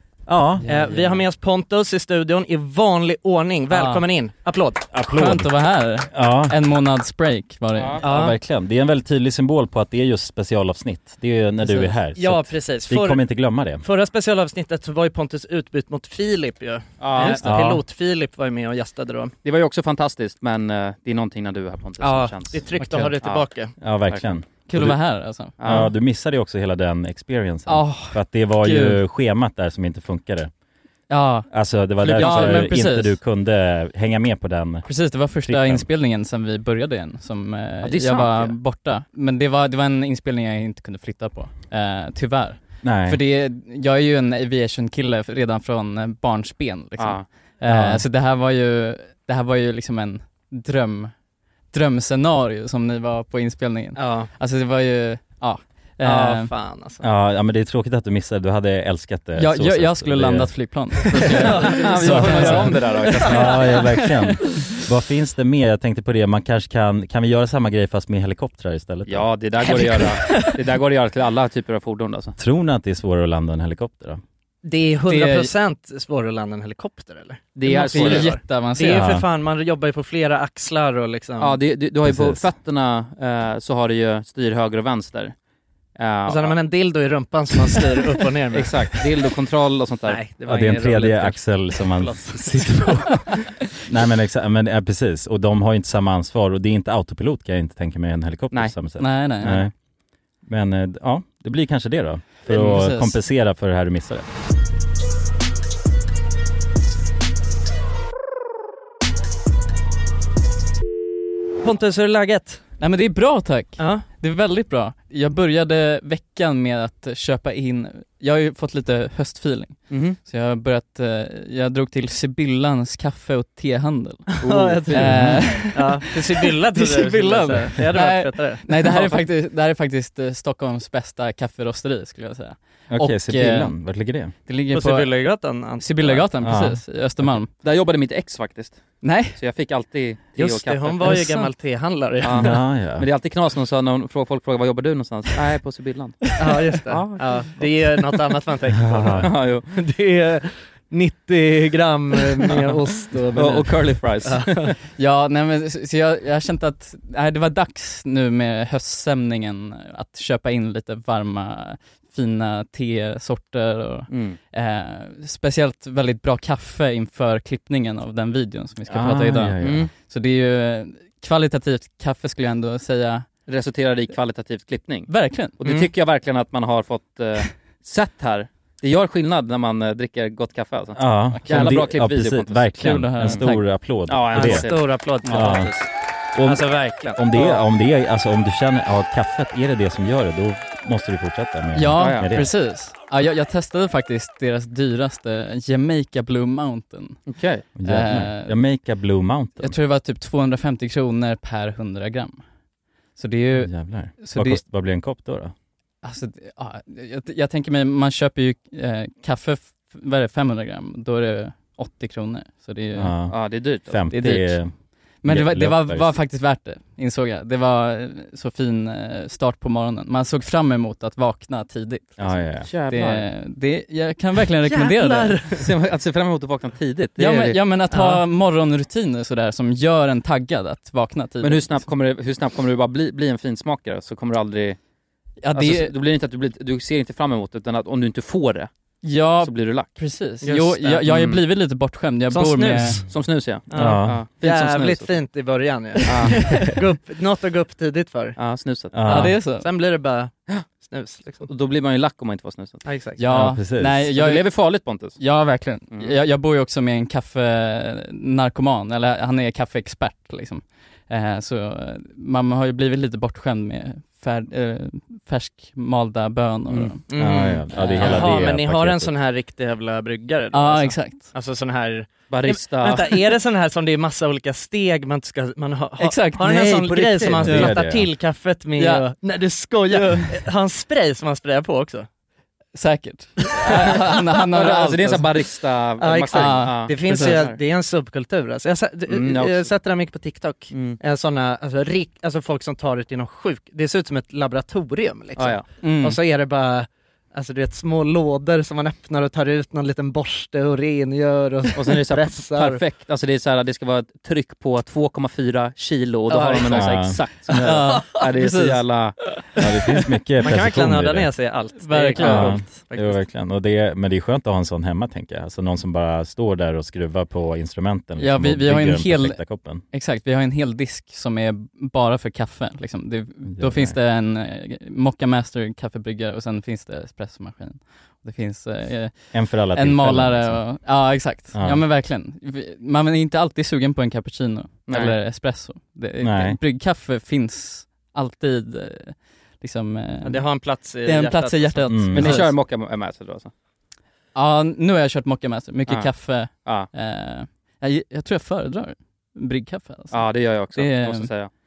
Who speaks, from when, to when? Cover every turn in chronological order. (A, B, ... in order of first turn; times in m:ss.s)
0:00.3-0:00.6 A
0:00.6-0:01.2 B
0:00.6-0:04.9 C
0:03.7-0:04.0 B
0:04.9-0:06.6 A
0:05.1-0:08.0 B
0:07.8-0:08.0 D
0:08.0-0:08.4 C
0:08.0-0:13.8 A
0:11.6-0:12.0 B
0:12.2-0:19.3 C
0:17.0-0:17.4 D
0:17.4-0:17.8 A
0:19.4-0:23.5 D
0:22.0-0:23.7 C
0:23.8-0:30.5 A
0:24.1-0:24.3 D
0:24.7-0:25.9 B
0:25.6-0:25.9 D
0:27.7-0:29.0 B
0:31.1-0:33.2 B
0:31.5-0:35.9 A
0:32.0-0:32.9 D
0:34.8-0:56.5 B
0:37.8-0:38.6 D
0:42.8-0:43.2 A
0:47.0-0:47.3 D
0:47.6-0:48.0 A
0:54.0-0:54.3 C
0:56.0-0:57.0 C
0:57.0-1:10.0 A
0:59.4-1:04.3 B
1:01.4-1:03.4 C
1:01.7-1:03.7 D
1:09.1-1:12.4 D
1:09.6-1:10.6 B
1:12.4-1:14.2 A
1:14.6-1:21.6 C
1:15.0-1:15.5 B
1:17.6-1:18.3 D
1:17.7-1:19.1 B
1:18.9-1:19.2 A
1:21.4-1:25.4 D
1:22.0-1:22.5 A
1:26.0-1:26.6 D
1:26.3-1:29.0 C
1:28.5-1:30.2 D
1:30.1-1:33.3 C
1:30.4-1:39.9 A
1:38.5-1:38.8 D
1:39.0-1:39.7 B
1:40.4-1:44.3 A
1:42.4-1:43.2 B
1:51.6-1:52.6 C
1:52.8-2:17.6 B
1:53.8-1:54.0 C
1:59.9-2:00.2 D
2:04.4-2:05.2 D
2:04.4-2:08.7 C
2:04.9-2:05.6 A
2:08.7-2:09.3 D
2:12.9-2:14.3 A
2:14.7-2:16.3 C
2:16.4-2:17.4 A
2:17.6-2:21.2 D
2:19.0-2:19.4 B
2:20.4-2:22.6 C
2:21.0-2:21.5 B
2:22.2-2:26.3 D
2:22.4-2:23.1 A
2:26.4-2:34.7 C
2:26.9-2:27.9 D
2:28.8-2:29.3 A
2:29.2-2:29.7 D
2:33.4-2:34.6 D
2:35.0-2:53.4 B
2:44.1-2:44.4 D
2:48.9-2:49.9 A
2:49.6-2:49.9 D
2:53.5-3:05.7 D
2:55.1-2:55.6 B
3:01.0-3:12.5 A
3:01.3-3:01.9 B
3:02.8-3:03.7 B
3:04.3-3:05.9 C
3:06.4-3:07.6 C
3:11.8-3:18.6 B
3:12.0-3:12.3 D
3:17.3-3:17.6 D
3:17.8-3:19.8 A
3:19.6-3:22.6 B
3:23.1-3:24.6 B
3:23.5-3:25.5 A
3:26.0-3:33.2 B
3:33.0-3:36.2 A
3:33.3-3:34.0 D
3:34.1-3:45.5 B
3:42.2-3:42.8 A
3:42.6-3:43.3 D
3:44.7-3:45.6 C
3:45.6-3:47.6 D
3:47.2-3:51.9 B
3:47.9-3:48.2 C
3:51.4-3:54.8 D
3:55.4-3:55.9 B
3:55.5-4:01.4 D
3:59.0-4:03.0 B
4:02.3-4:08.4 C
4:03.1-4:05.2 D
4:03.7-4:04.2 A
4:06.1-4:06.5 D
4:08.4-4:09.2 D
4:08.9-4:09.4 A
4:09.0-4:09.7 B
4:09.1-4:11.5 C
4:11.4-4:12.9 D
4:12.8-4:13.2 C
4:13.2-4:28.5 B
4:13.3-4:14.1 A
4:14.1-4:15.2 D
4:15.9-4:16.2 D
4:26.7-4:27.0 D
4:27.1-4:42.1 C
4:27.1-4:29.1 A
4:30.5-4:31.3 B
4:32.3-4:33.2 D
4:36.0-4:38.0 B
4:37.3-4:38.1 A
4:38.8-4:39.1 B
4:39.9-4:40.4 B
4:42.7-4:45.3 B
4:44.5-4:47.6 D
4:46.0-5:02.8 C
4:46.3-4:47.5 B
4:49.1-4:49.7 D
4:50.7-4:51.0 D
4:55.4-4:55.7 D
4:55.8-4:56.2 B
5:01.8-5:09.3 D
5:06.3-5:07.1 C
5:06.3-5:09.6 B
5:06.8-5:07.6 A
5:09.6-5:11.6 A
5:10.4-5:13.3 C
5:11.8-5:12.8 B
5:12.2-5:19.8 A
5:18.2-5:42.5 B
5:23.5-5:24.0 A
5:29.3-5:31.8 A
5:34.9-5:35.2 D
5:36.2-5:36.6 A
5:40.2-5:42.1 C
5:41.9-5:42.4 A
5:42.1-5:43.5 D
5:44.3-5:51.3 B
5:45.9-5:46.9 D
5:50.1-5:51.5 D